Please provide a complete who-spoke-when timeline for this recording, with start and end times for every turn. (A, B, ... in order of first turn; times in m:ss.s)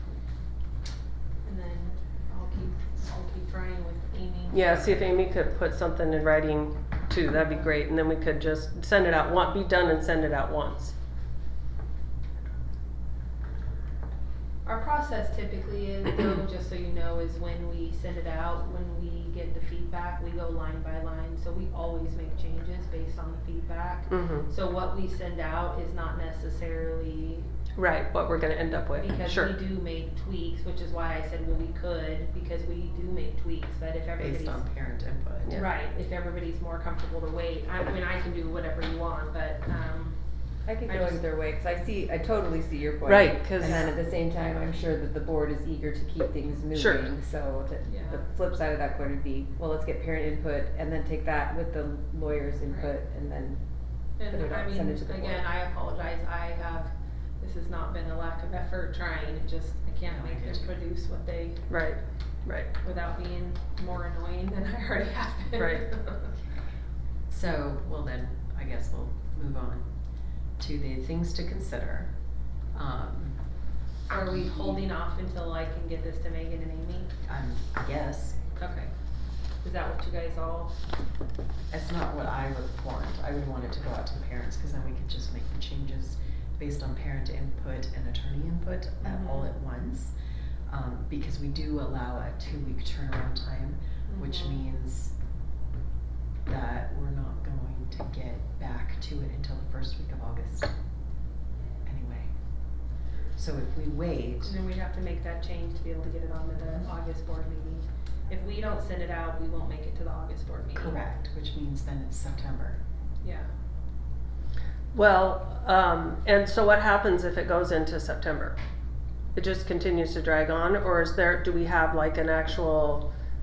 0:01.4-0:05.2 A
0:04.5-0:10.9 B
0:14.6-0:27.5 A
0:24.1-0:24.5 B
0:27.8-0:29.5 B
0:29.0-0:34.6 A
0:34.2-0:35.6 C
0:35.5-0:41.2 A
0:40.6-0:55.4 D
0:43.0-0:43.9 B
0:46.7-0:47.1 B
0:47.8-0:48.3 A
0:52.7-0:52.9 A
0:54.2-1:02.0 A
1:00.0-1:00.8 C
1:01.7-1:02.7 B
1:02.7-1:06.3 A
1:05.6-1:06.0 B
1:07.3-1:09.9 C
1:10.6-1:12.2 C
1:12.7-1:13.4 C
1:14.1-1:17.1 A
1:14.2-1:14.8 C
1:17.3-1:18.4 C
1:18.6-1:18.9 A
1:19.6-1:20.8 A
1:21.7-1:30.1 C
1:29.0-1:29.5 A
1:30.7-1:35.1 C
1:34.1-1:34.6 A
1:36.4-1:40.7 C
1:41.8-1:42.3 C
1:43.4-1:44.5 C
1:44.4-1:51.0 A
1:50.7-1:52.8 C
1:53.2-1:53.5 A
1:54.9-1:58.6 B
1:59.3-2:03.1 B